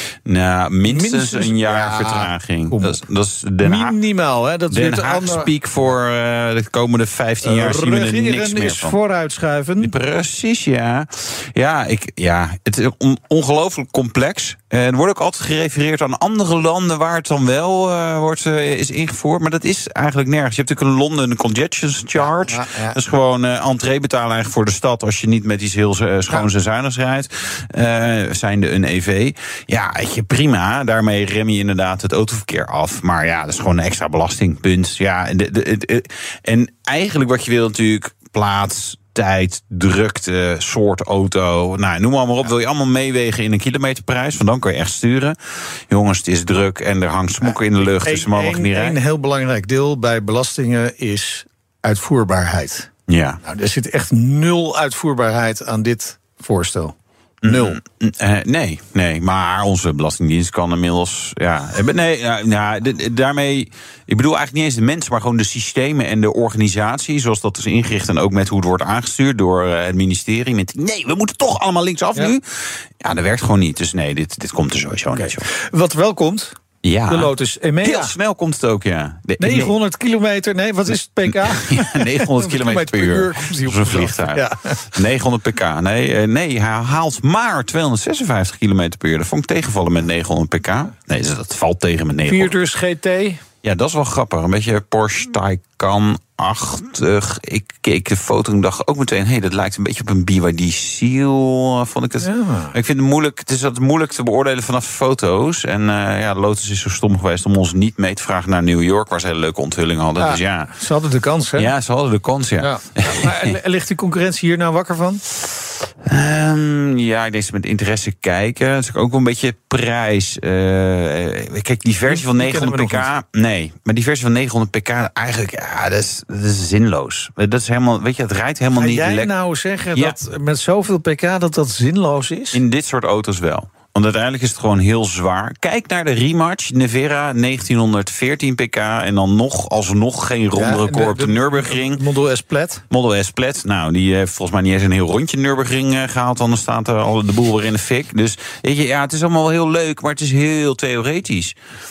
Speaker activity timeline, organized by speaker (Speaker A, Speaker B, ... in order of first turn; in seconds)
Speaker A: 0.3-4.0, 4.7-9.0, 9.8-49.0, 53.1-53.4, 57.4-75.5, 76.8-79.7, 81.3-92.5, 93.6-110.7, 111.6-113.5, 116.0-129.3, 132.5-142.0, 142.9-151.5
Speaker B: 0.9-3.0, 3.6-5.5, 7.4-9.9, 22.2-23.0, 47.4-52.9, 53.4-57.8, 75.1-78.1, 79.4-84.9, 92.2-93.4, 102.2-102.7, 110.2-111.7, 112.6-115.2, 122.1-123.1, 128.8-132.6, 140.6-142.8